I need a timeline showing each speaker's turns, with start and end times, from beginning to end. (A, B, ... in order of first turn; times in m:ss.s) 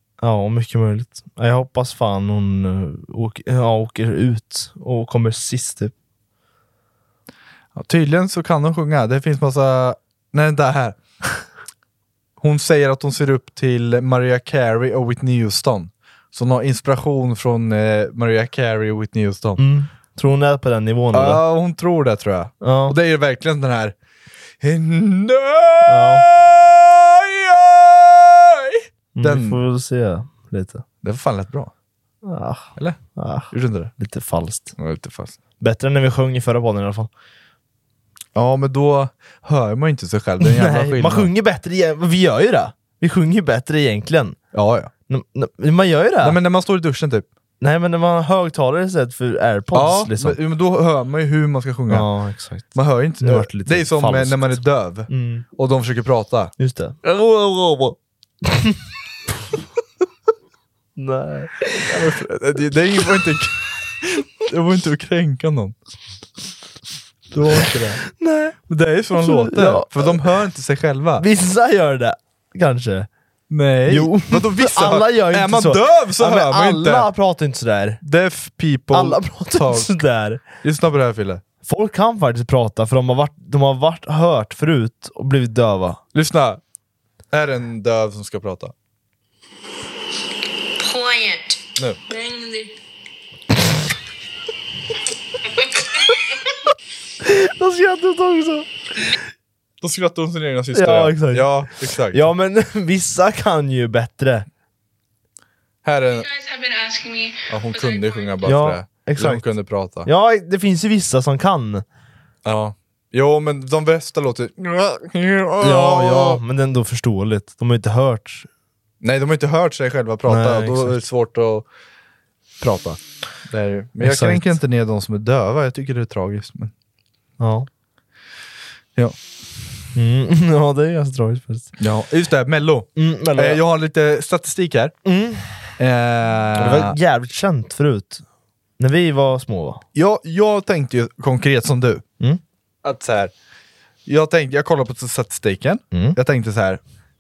0:00.2-0:05.9 A
0:07.8-0:11.4 B
0:12.4-0:19.6 B
0:19.6-0:21.4 A
0:21.1-0:24.0 B
0:22.6-0:23.0 A
0:24.6-0:29.6 B
0:25.9-0:26.3 A
0:29.2-0:30.8 A
0:31.0-0:31.7 B
0:32.2-0:34.8 A
0:32.8-0:33.9 B
0:34.8-0:35.4 B
0:35.6-0:37.1 A
0:38.4-0:41.3 B
0:40.4-0:44.4 A
0:44.5-0:44.9 B
0:45.1-0:46.4 A
0:46.2-0:47.3 B
0:47.6-0:50.4 A
0:49.7-0:52.1 B
0:51.9-0:55.5 A
0:52.7-0:56.5 B
0:56.6-0:58.8 A
1:01.0-1:02.0 A
1:01.9-1:05.8 B
1:07.3-1:08.0 B
1:08.0-1:08.6 A
1:08.7-1:11.2 B
1:09.2-1:10.3 A
1:11.2-1:13.1 A
1:13.5-1:17.1 B
1:13.9-1:18.0 A
1:18.0-1:20.0 B
1:18.9-1:20.4 A
1:20.6-1:21.4 B
1:21.6-1:26.0 A
1:26.1-1:26.6 B
1:27.3-1:28.7 B
1:30.8-1:32.8 C
1:37.2-1:38.7 A
1:39.8-1:42.3 B
1:40.7-1:44.5 A
1:45.8-1:46.3 B
1:46.1-1:48.5 C
1:47.5-1:50.1 B
1:48.4-1:49.5 A
1:50.0-1:51.8 A
1:52.4-1:56.4 B
1:55.6-1:58.5 A
1:59.0-2:01.7 B
2:00.3-2:01.0 A
2:02.6-2:06.7 B
2:04.0-2:04.6 A
2:07.4-2:07.7 A
2:10.0-2:11.7 A
2:11.8-2:15.0 B
2:13.0-2:13.6 A
2:15.0-2:15.7 A
2:15.8-2:17.0 B
2:16.6-2:18.2 A
2:18.8-2:19.8 A
2:20.0-2:22.0 B
2:22.8-2:23.3 B
2:24.1-2:26.8 B
2:25.9-2:26.2 A